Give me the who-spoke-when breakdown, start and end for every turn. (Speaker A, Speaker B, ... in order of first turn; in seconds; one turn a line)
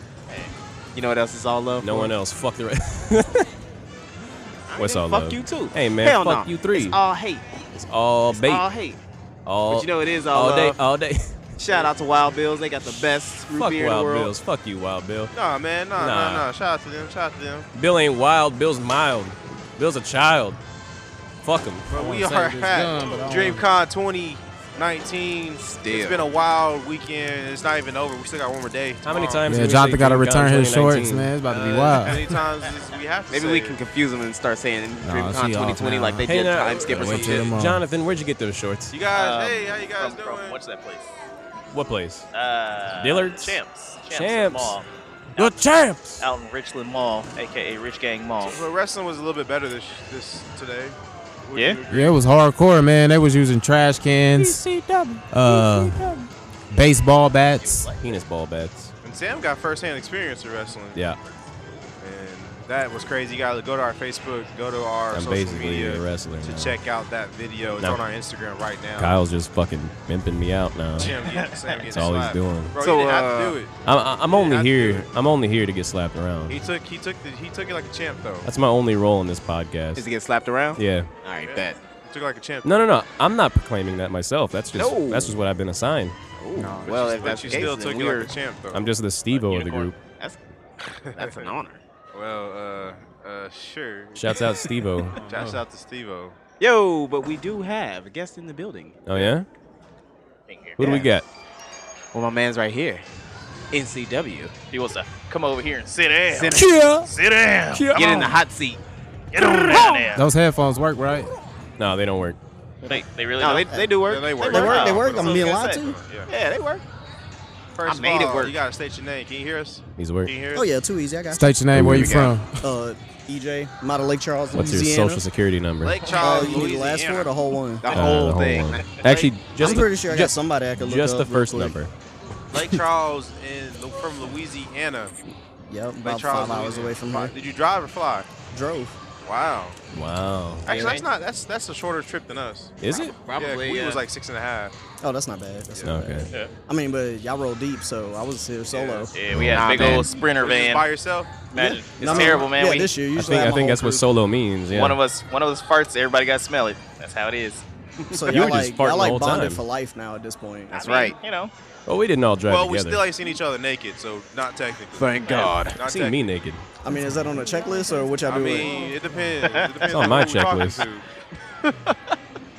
Speaker A: 0.3-2.1
Speaker B: 1.8-3.5
Speaker A: 4.7-7.4
Speaker B: 4.8-7.0
Speaker B: 7.7-8.7
Speaker A: 8.3-9.0
Speaker B: 9.5-11.3
Speaker A: 9.7-10.8
Speaker A: 11.6-14.3
Speaker B: 13.5-15.3
Speaker C: 15.3-17.7
Speaker B: 16.0-16.5
Speaker B: 17.8-20.6
Speaker B: 21.4-21.9
Speaker C: 21.9-29.6
Speaker D: 21.9-23.6
Speaker A: 25.6-26.4
Speaker B: 29.1-31.3
Speaker D: 29.5-32.3
Speaker C: 31.5-33.8
Speaker A: 33.3-37.5
Speaker D: 35.0-37.8
Speaker B: 36.2-38.9
Speaker C: 36.7-37.3
Speaker C: 38.9-40.6
Speaker E: 39.1-41.1
Speaker B: 41.7-42.3
Speaker E: 42.3-45.6
Speaker B: 43.0-43.6
Speaker B: 44.1-44.8
Speaker B: 45.4-45.7
Speaker D: 45.4-46.2
Speaker E: 46.2-48.6
Speaker C: 48.4-52.2
Speaker E: 51.5-51.8
Speaker D: 51.9-57.9
Speaker B: 55.7-56.0
Speaker E: 57.6-58.0
Speaker B: 58.0-58.9
Speaker C: 59.0-61.1
Speaker C: 62.0-69.2
Speaker B: 65.1-66.8
Speaker B: 69.0-71.2
Speaker C: 71.0-73.7
Speaker E: 71.0-71.9
Speaker B: 71.9-72.7
Speaker A: 72.8-73.6
Speaker B: 73.8-76.6
Speaker C: 74.2-75.1
Speaker C: 76.5-78.5
Speaker B: 78.4-80.1
Speaker A: 80.0-81.8
Speaker B: 80.8-81.1
Speaker C: 81.4-82.8
Speaker B: 82.6-86.2
Speaker A: 84.7-85.4
Speaker A: 86.4-88.3
Speaker C: 86.8-88.9
Speaker B: 88.7-90.0
Speaker E: 89.5-89.9
Speaker C: 91.0-91.5
Speaker A: 91.1-91.8
Speaker C: 92.1-96.4
Speaker B: 94.2-95.2
Speaker A: 96.6-99.2
Speaker B: 99.1-99.5
Speaker E: 100.5-101.0
Speaker B: 100.8-101.2
Speaker A: 100.8-101.1
Speaker A: 102.1-103.0
Speaker A: 103.7-104.5
Speaker E: 104.7-107.9
Speaker A: 106.3-106.7
Speaker D: 106.5-107.1
Speaker B: 107.8-108.3
Speaker D: 107.8-108.3
Speaker A: 107.9-108.8
Speaker E: 109.3-110.3
Speaker D: 109.5-111.3
Speaker B: 111.8-112.4
Speaker E: 112.8-115.9
Speaker A: 112.9-114.7
Speaker C: 114.0-116.3
Speaker F: 114.5-116.0
Speaker A: 116.3-116.8
Speaker C: 117.8-120.7
Speaker A: 117.8-118.6
Speaker B: 120.0-120.3
Speaker F: 120.5-121.6
Speaker D: 121.3-122.6
Speaker B: 121.7-122.2
Speaker A: 121.8-122.4
Speaker F: 122.6-125.2
Speaker B: 124.5-126.2
Speaker C: 125.8-127.3
Speaker F: 126.2-127.9
Speaker A: 127.8-128.9
Speaker B: 127.9-131.9
Speaker F: 129.6-131.8
Speaker C: 132.5-135.1
Speaker F: 135.7-137.3
Speaker C: 136.0-138.3
Speaker F: 138.5-139.0
Speaker C: 139.2-139.8
Speaker B: 139.9-140.7
Speaker C: 140.7-142.8
Speaker A: 140.7-141.1
Speaker B: 142.8-143.2
Speaker A: 142.9-144.1
Speaker C: 143.3-144.7
Speaker F: 145.0-149.1
Speaker B: 145.8-146.3
Speaker C: 148.7-149.1
Speaker E: 149.1-150.9
Speaker B: 149.3-150.1
Speaker A: 149.5-150.1
Speaker C: 150.2-151.5
Speaker E: 151.5-152.9
Speaker F: 151.5-154.0
Speaker B: 152.0-152.4
Speaker B: 153.1-155.0
Speaker E: 154.7-157.6
Speaker F: 158.1-160.8
Speaker B: 158.2-159.6
Speaker A: 160.7-161.2
Speaker E: 160.7-161.5
Speaker B: 161.9-163.0
Speaker C: 162.4-166.2
Speaker A: 165.0-165.8
Speaker E: 165.3-165.6
Speaker B: 165.7-166.6
Speaker F: 166.8-168.8
Speaker C: 168.2-171.1
Speaker E: 169.4-170.3
Speaker B: 169.9-170.9